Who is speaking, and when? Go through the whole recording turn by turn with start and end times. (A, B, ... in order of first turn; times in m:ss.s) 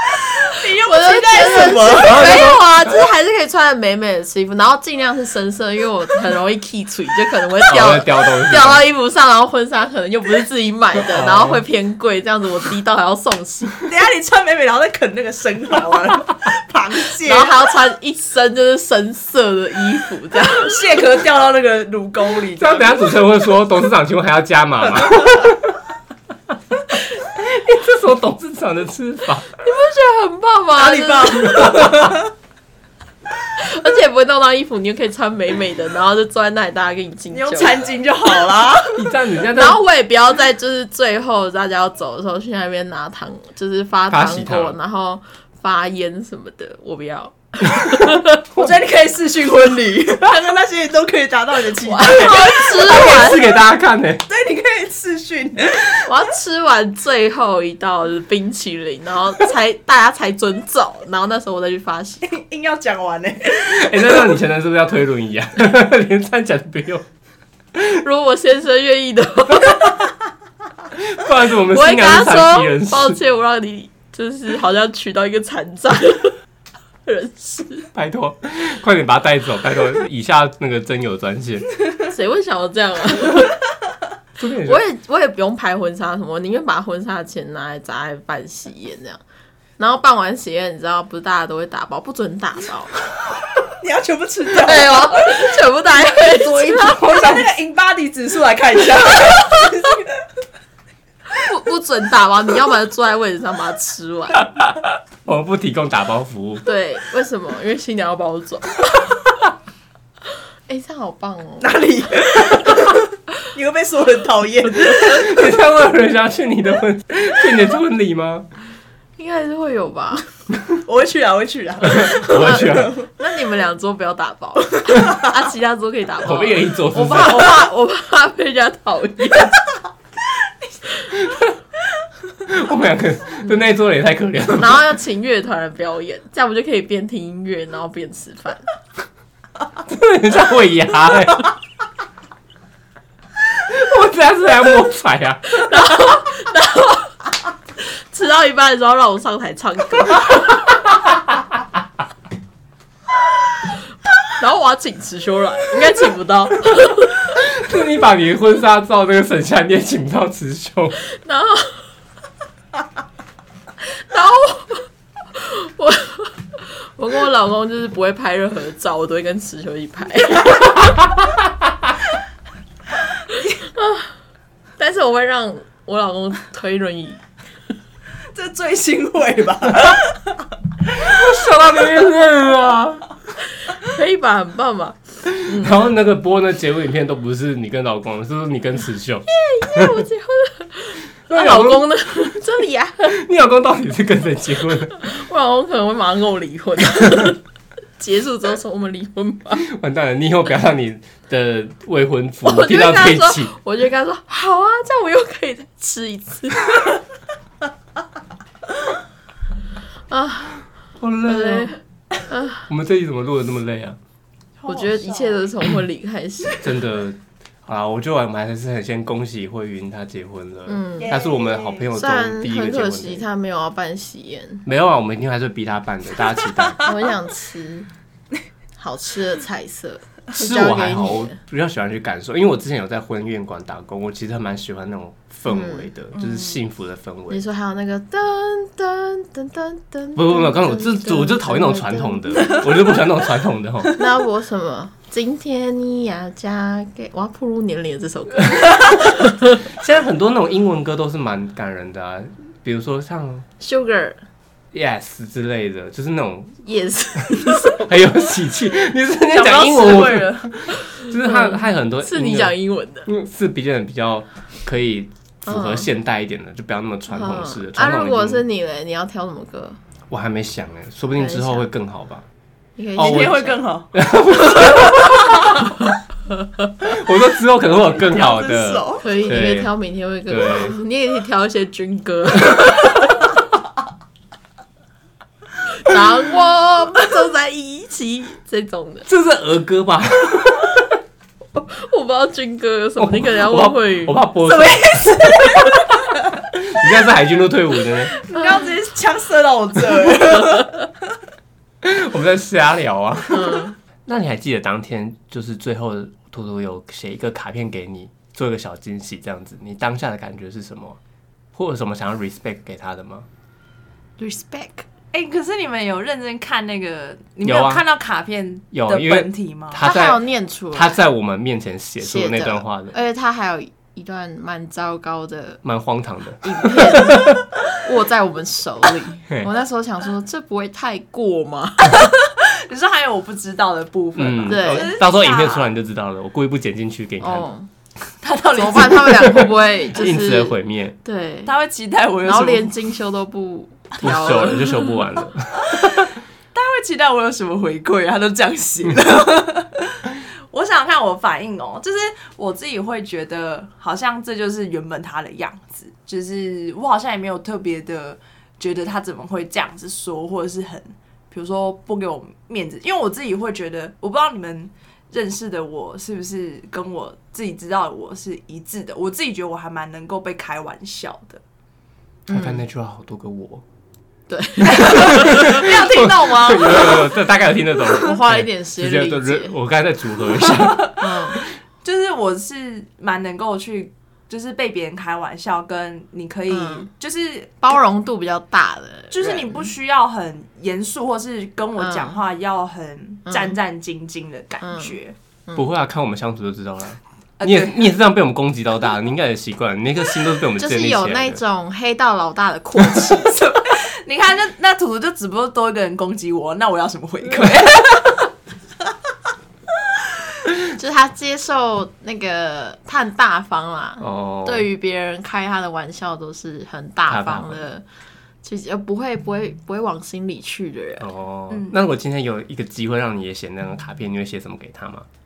0:00.3-0:02.5 A
0:00.5-0:13.8 B
0:01.9-0:02.6 C
0:07.7-0:08.8 C
0:11.0-0:11.6 C
0:13.8-0:17.5 A
0:17.2-0:20.8 B
0:20.5-0:23.1 A
0:22.6-0:25.7 C
0:26.9-0:29.5 C
0:29.6-0:32.0 B
0:30.8-0:32.3 A
0:31.6-0:32.1 C
0:33.5-0:37.8 B
0:37.3-0:39.0 A
0:38.9-0:39.8 C
0:39.5-0:48.4 B
0:44.1-0:44.8 C
0:48.4-0:53.1 A
0:51.8-0:53.4 B
0:52.7-0:54.2 C
0:54.2-0:56.1 A
0:56.0-1:02.4 B
1:02.2-1:04.4 A
1:03.5-1:07.0 C
1:07.8-1:10.0 B
1:10.9-1:13.2 C
1:11.7-1:16.4 B
1:17.0-1:17.9 B
1:17.9-1:21.7 C
1:22.1-1:23.5 B
1:24.4-1:24.8 C
1:24.6-1:29.2 B
1:29.8-1:33.0 B
1:33.7-1:40.1 A
1:34.5-1:37.4 B
1:41.3-1:44.5 B
1:44.4-1:46.6 C
1:46.6-1:49.1 B
1:50.7-1:51.7 B
1:51.6-1:55.4 A
1:54.8-1:58.5 C
1:59.2-2:00.2 B
2:00.8-2:03.1 A
2:01.8-2:02.9 C
2:02.3-2:09.6 B
2:06.2-2:07.7 C
2:12.4-2:14.8 C
2:14.6-2:18.6 B
2:19.9-2:21.5 C
2:23.6-2:25.6 C
2:25.5-2:27.2 B
2:27.8-2:30.8 B
2:34.4-2:37.4 B
2:37.3-2:41.0 C
2:41.1-2:41.8 B
2:43.9-2:50.9 B
2:53.3-2:54.1 B
2:54.8-2:57.2 B
2:58.3-3:00.4 A
3:01.0-3:03.0 C
3:03.7-3:05.8 B
3:05.4-3:10.0 C
3:09.3-3:13.2 B
3:11.3-3:11.9 C
3:13.1-3:15.0 C
3:14.9-3:17.4 B
3:18.0-3:19.7 B
3:19.6-3:23.5 C
3:22.4-3:27.0 B
3:30.1-3:30.6 B
3:31.0-3:31.7 C
3:31.2-3:32.7 B
3:32.7-3:34.0 C
3:34.6-3:35.5 A
3:34.7-3:36.7 B
3:36.6-3:43.2 C
3:40.7-3:41.2 B
3:41.0-3:41.9 A
3:41.9-3:44.6 B
3:44.6-3:47.0 C
3:46.8-3:47.9 B
3:48.8-3:51.4 B
3:50.3-3:57.4 C
3:55.5-3:55.9 B
3:57.3-4:02.6 B
4:00.2-4:03.9 C
4:03.9-4:09.6 B
4:09.6-4:13.4 C
4:13.6-4:14.2 B
4:14.7-4:16.6 C
4:16.6-4:17.9 B
4:17.2-4:28.4 C
4:19.3-4:20.5 A
4:20.7-4:23.1 B
4:25.5-4:25.9 B
4:27.1-4:29.8 B
4:30.1-4:32.2 C
4:31.1-4:31.7 B
4:32.8-4:33.6 B
4:33.0-4:34.0 A
4:33.0-4:33.4 C
4:33.9-4:35.6 C
4:36.8-4:39.7 C
4:37.9-4:39.0 A
4:39.0-4:43.3 B
4:40.3-4:40.8 C
4:45.7-4:49.1 B
4:49.0-4:50.9 C
4:51.5-4:54.2 B
4:53.0-4:58.2 C
4:54.4-4:56.0 A
4:58.1-5:01.0 A
4:58.4-4:58.6 B
5:01.8-5:11.0 C
5:03.3-5:03.7 B
5:11.5-5:13.3 C
5:14.2-5:14.8 B
5:15.1-5:19.9 A
5:17.4-5:17.8 C
5:18.7-5:22.9 C
5:19.8-5:21.0 B
5:22.0-5:25.6 B
5:25.6-5:27.4 C
5:26.4-5:32.1 B
5:32.0-5:35.7 A
5:34.2-5:37.5 C
5:34.5-5:34.9 B
5:37.2-5:37.7 B
5:38.2-5:39.4 A
5:38.4-5:41.5 B
5:38.9-5:41.0 C
5:41.4-5:42.7 A
5:42.2-5:45.0 B
5:44.0-5:46.1 C
5:45.6-6:11.4 A
6:12.3-6:13.6 C
6:12.3-6:12.6 B
6:14.3-6:15.7 B
6:14.7-6:20.9 C
6:14.7-6:17.1 A
6:18.0-6:19.5 B
6:20.4-6:21.0 A
6:21.0-6:21.4 B
6:21.8-6:27.8 A
6:26.5-6:26.9 B
6:27.6-6:29.7 B
6:29.1-6:35.1 A
6:31.8-6:32.2 B
6:34.6-6:34.9 B
6:35.5-6:41.4 C
6:37.4-6:37.9 A
6:40.6-6:43.4 B
6:43.1-6:48.3 A
6:50.7-6:57.8 B
6:54.0-6:54.7 C
6:57.1-6:57.6 C
6:58.4-7:01.1 B
7:01.0-7:05.0 C
7:01.5-7:01.8 A